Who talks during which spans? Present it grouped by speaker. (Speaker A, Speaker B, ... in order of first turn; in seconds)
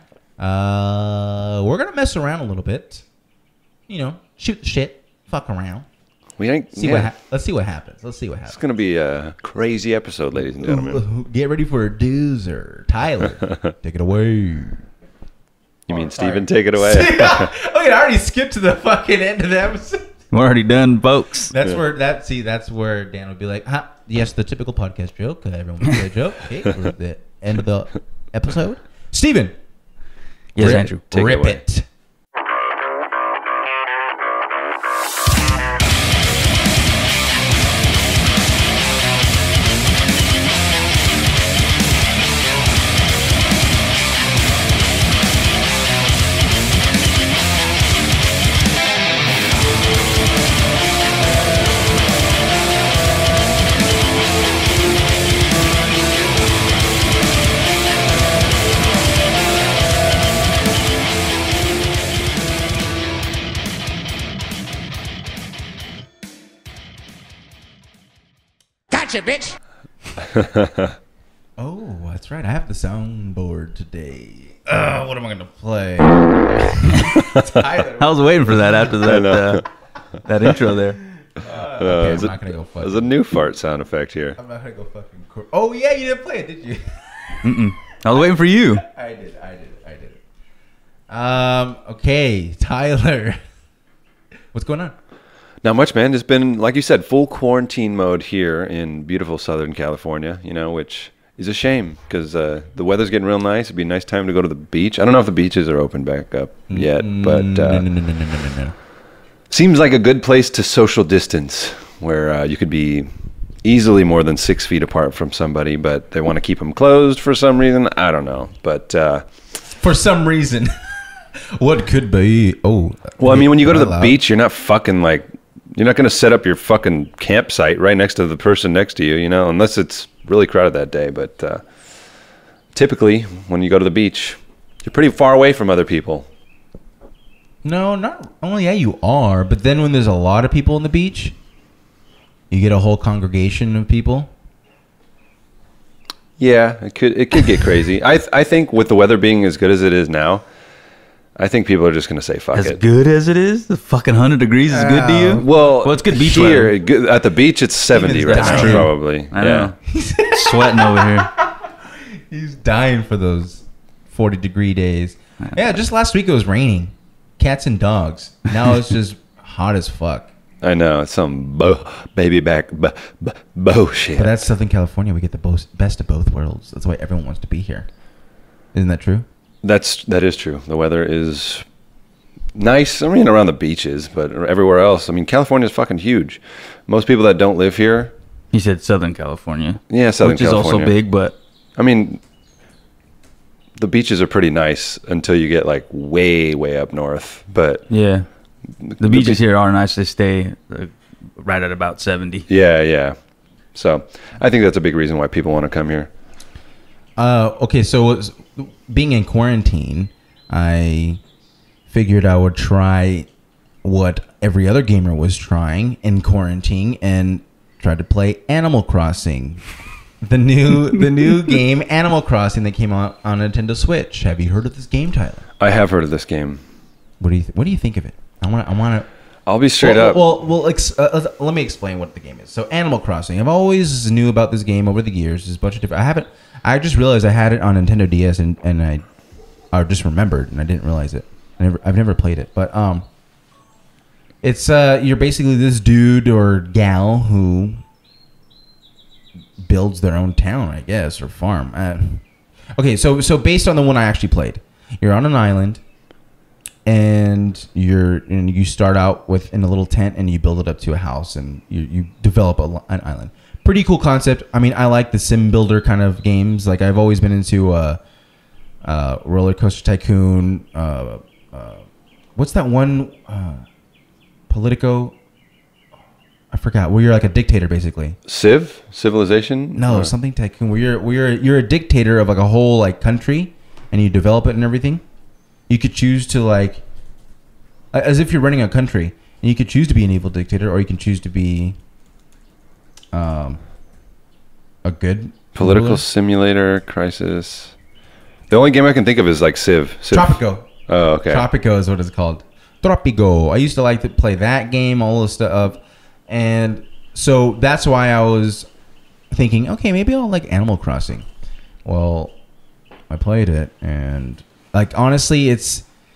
Speaker A: 0.4-3.0, 3.9-5.9, 6.7-8.6, 10.3-14.8, 15.9-20.1, 21.5-29.5, 30.6-31.9, 69.0-69.5, 71.6-78.9, 81.4-83.1, 84.4-87.5, 88.8-90.2, 91.1-93.4, 94.5-94.9, 106.7-108.8, 119.7-120.7, 121.6-124.2, 137.6-141.3, 142.5-144.3, 154.7-155.5, 157.9-158.9, 159.9-161.7, 162.3-170.3, 174.2-177.9, 178.7-179.3, 207.2-211.2, 211.9-213.3, 213.8-219.6, 220.2-225.4, 227.2-229.1, 229.8-239.1, 239.7-243.1, 244.4-247.8, 249.6-252.2, 252.8-255.8, 256.9-268.0, 268.8-271.9, 272.4-273.6, 274.5-275.2, 276.5-278.2, 279.8-285.0, 285.7-286.8, 287.9-291.8, 293.1-293.6, 294.8-296.0, 300.1-300.7, 301.3-308.7, 309.3-311.3, 311.9-312.3, 313.1-315.9
Speaker B: 6.4-7.1, 8.5-11.0, 15.9-17.5, 30.6-31.6, 70.2-71.0, 79.0-79.6, 81.8-84.4, 95.6-107.9, 109.5-113.1, 113.6-119.2, 123.2-131.6, 132.7-136.3, 146.4-150.4, 151.4-152.8, 155.4-159.7, 170.6-174.4, 179.6-181.7, 182.6-188.1, 189.9-190.9, 191.8-192.2, 193.8-197.9, 198.8-199.4, 202.5-203.2, 203.7-206.1, 225.6-226.6, 229.5-230.2, 278.3-280.1, 295.6-297.8, 298.5-301.5
Speaker C: 20.3-21.5, 30.6-31.0, 78.0-79.7, 80.3-81.0, 87.4-88.8, 152.5-156.7, 158.3-159.8, 160.3-161.3, 188.5-191.3, 197.9-198.3, 199.0-202.5